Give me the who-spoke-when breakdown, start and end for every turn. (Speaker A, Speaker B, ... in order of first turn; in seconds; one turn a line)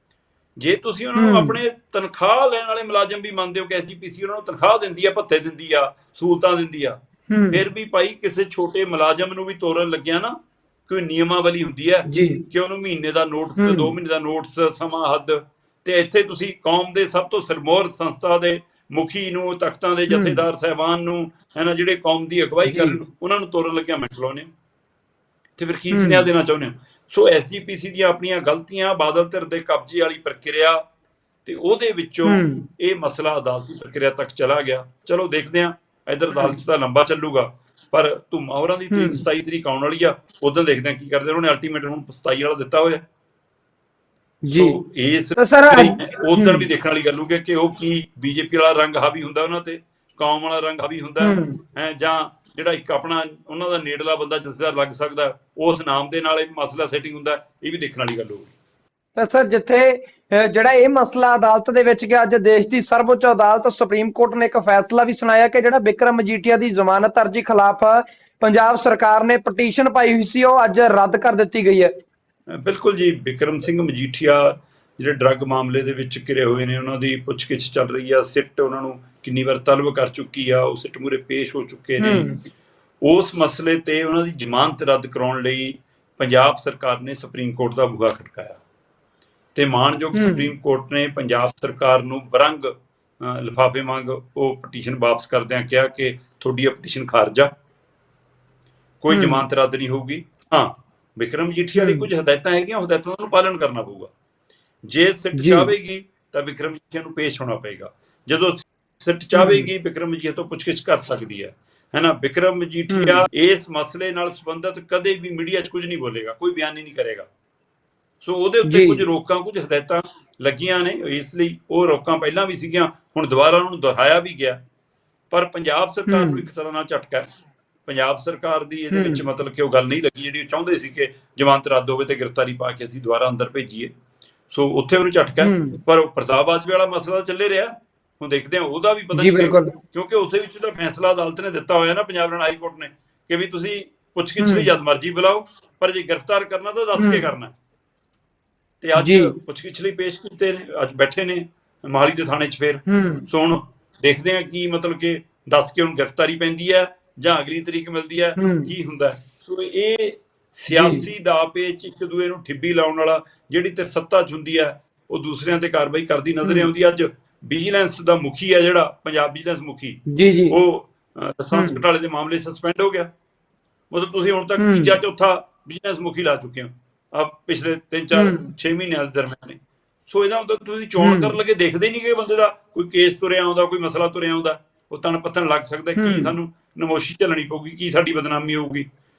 Speaker A: 0.6-7.0
Speaker B: 1.2-1.6
Speaker B: 7.3-7.6
Speaker A: 7.5-24.5
Speaker B: 12.1-12.4
Speaker B: 13.6-13.9
Speaker B: 20.1-20.4
Speaker B: 22.7-23.0
Speaker A: 25.6-30.8
Speaker B: 25.9-26.3
Speaker A: 31.4-43.0
Speaker B: 32.2-32.7
Speaker B: 38.9-39.2
Speaker B: 44.5-44.8
Speaker A: 44.5-58.5
Speaker B: 45.4-46.7
Speaker B: 51.2-51.6
Speaker B: 59.2-71.9
Speaker A: 72.5-82.3
Speaker B: 82.0-82.4
Speaker A: 83.0-88.6
Speaker A: 89.5-97.5
Speaker B: 90.1-90.5
Speaker A: 99.0-104.1
Speaker B: 99.1-99.5
Speaker B: 101.8-102.1
Speaker A: 104.9-117.3
Speaker B: 105.4-105.7
Speaker B: 109.3-109.7
Speaker B: 112.9-113.3
Speaker A: 118.2-124.6
Speaker B: 118.7-119.0
Speaker A: 125.3-127.3
Speaker B: 126.1-126.5
Speaker A: 127.9-133.9
Speaker B: 128.9-129.2
Speaker A: 134.5-147.5
Speaker B: 135.4-135.8
Speaker B: 139.1-139.8
Speaker B: 144.4-144.7
Speaker B: 147.0-147.3
Speaker A: 148.8-173.1
Speaker B: 149.0-149.3
Speaker B: 152.9-153.3
Speaker B: 158.4-158.7
Speaker B: 160.7-161.1
Speaker B: 166.4-166.7
Speaker B: 170.1-170.6
Speaker B: 171.5-171.8
Speaker A: 173.9-188.9
Speaker B: 174.6-175.0
Speaker B: 178.1-178.5
Speaker B: 181.0-181.3
Speaker B: 186.0-186.3